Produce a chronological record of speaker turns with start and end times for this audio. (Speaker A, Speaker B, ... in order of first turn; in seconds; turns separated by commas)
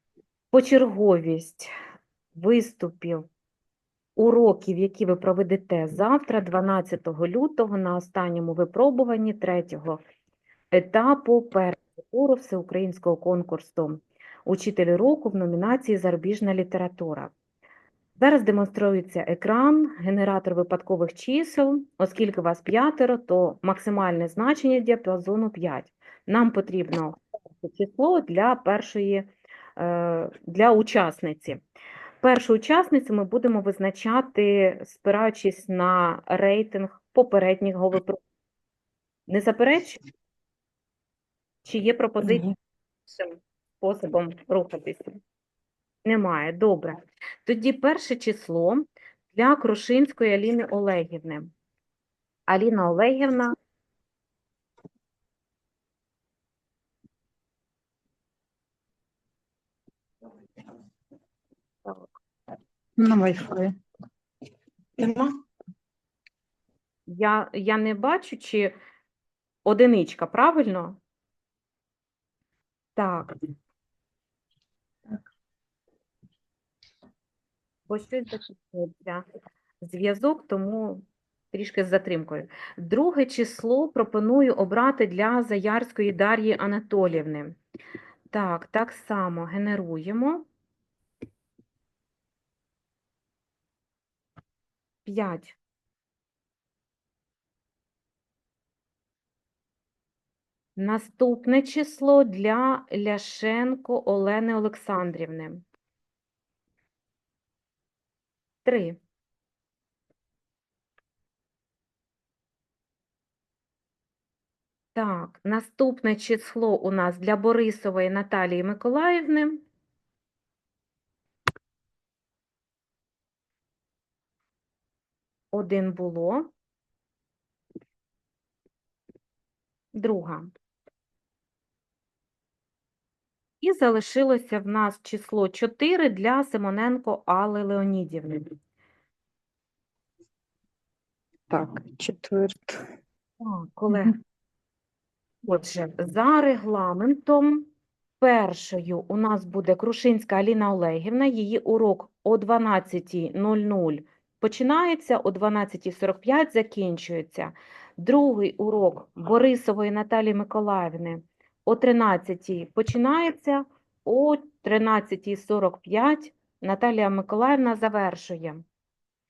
Speaker A: 0.5-1.7, Speaker A: 2.3-3.3, Speaker A: 4.2-10.0, Speaker A: 10.7-17.3, Speaker A: 18.2-31.6, Speaker A: 32.2-38.2, Speaker A: 39.3-40.0, Speaker A: 41.6-42.5, Speaker B: 42.2-42.5, Speaker A: 43.1-45.2, Speaker A: 46.0-51.5, Speaker A: 52.5-53.5, Speaker B: 63.0-63.7, Speaker B: 65.0-65.3, Speaker A: 67.1-68.7, Speaker A: 69.6-71.0, Speaker A: 73.0-73.3, Speaker A: 77.9-79.2, Speaker A: 79.8-87.6, Speaker A: 88.3-90.5, Speaker A: 95.0-95.6, Speaker A: 100.8-105.6, Speaker A: 108.6-109.0, Speaker A: 114.9-119.6, Speaker A: 125.5-126.5, Speaker A: 129.9-130.5, Speaker A: 133.6-138.4, Speaker B: 141.5-142.8, Speaker A: 143.4-144.1, Speaker A: 145.4-147.7, Speaker A: 148.2-168.6